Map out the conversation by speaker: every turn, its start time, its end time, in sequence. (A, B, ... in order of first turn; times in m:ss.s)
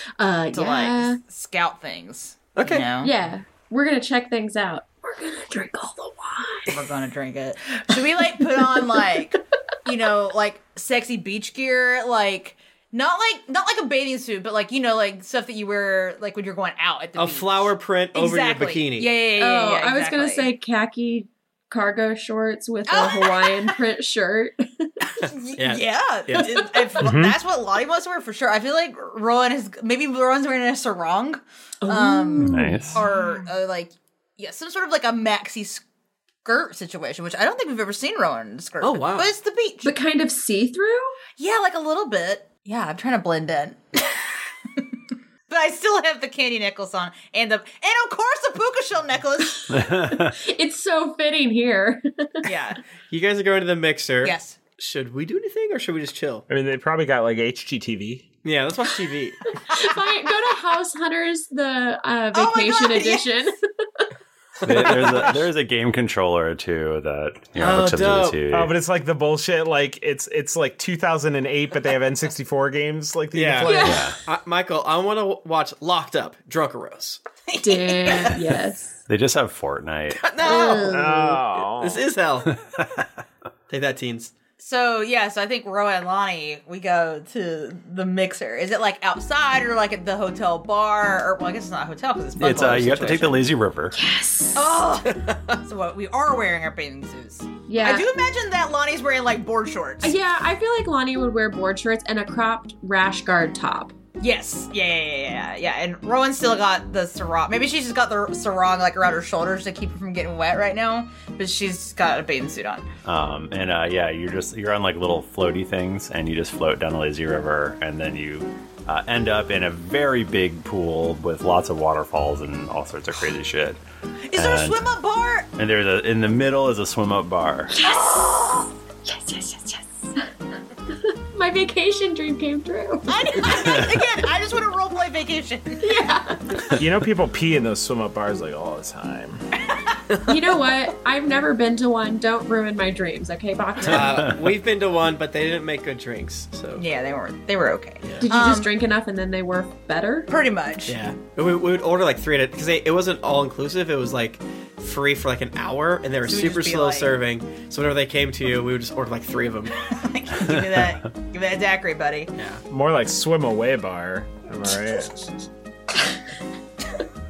0:00.2-0:01.2 A
0:00.5-0:03.1 B
0:02.6-0:02.9 C
0:03.0-0:06.7 A
0:06.7-0:20.5 B
0:17.2-0:19.1 C
0:19.4-0:24.9 A
0:22.9-0:23.7 B
0:25.2-0:35.8 B
0:25.6-0:26.5 C
0:27.0-0:27.4 D
0:31.8-0:33.5 A
0:32.4-0:33.0 E
0:36.4-0:39.9 B
0:38.8-0:39.3 C
0:39.8-0:41.2 A
0:41.4-0:44.8 B
0:45.5-0:49.6 B
0:49.7-0:50.4 E
0:49.8-0:52.5 A
0:52.4-0:52.8 B
0:53.1-0:56.4 C
0:54.2-0:54.6 B
0:56.5-0:58.3 D
0:58.4-0:59.5 C
0:59.7-1:04.1 A
1:02.3-1:03.3 B
1:04.6-1:05.3 C
1:04.6-1:08.7 E
1:07.6-1:08.4 C
1:08.5-1:14.1 D
1:13.3-1:17.2 C
1:13.6-1:14.1 A
1:13.8-1:14.2 E
1:17.5-1:18.4 B
1:17.6-1:19.0 A
1:19.1-1:20.3 E
1:20.2-1:21.1 C
1:20.4-1:21.4 A
1:20.9-1:22.0 D
1:21.8-1:22.5 C
1:22.5-1:23.1 E
1:23.7-1:24.3 C
1:24.6-1:33.4 B
1:32.4-1:34.0 E
1:34.0-1:34.6 A
1:34.6-1:40.1 B
1:35.2-1:35.6 C
1:37.7-1:38.1 A
1:40.0-1:43.9 A
1:44.2-1:52.9 B
1:53.0-2:03.8 E
2:04.3-2:05.5 B
2:04.4-2:04.8 E
2:05.6-2:07.8 E
2:07.8-2:10.3 A
2:10.9-2:13.9 A
2:13.1-2:16.1 B
2:15.8-2:16.7 A
2:16.7-2:19.4 D
2:20.3-2:24.2 A
2:23.8-2:26.8 C
2:26.8-2:28.7 B
2:28.2-2:30.3 A
2:30.3-2:31.0 B
2:30.9-2:39.8 C
2:36.3-2:37.1 B
2:39.8-2:42.3 B
2:40.5-2:40.9 E
2:42.4-2:42.6 C
2:42.7-2:45.1 D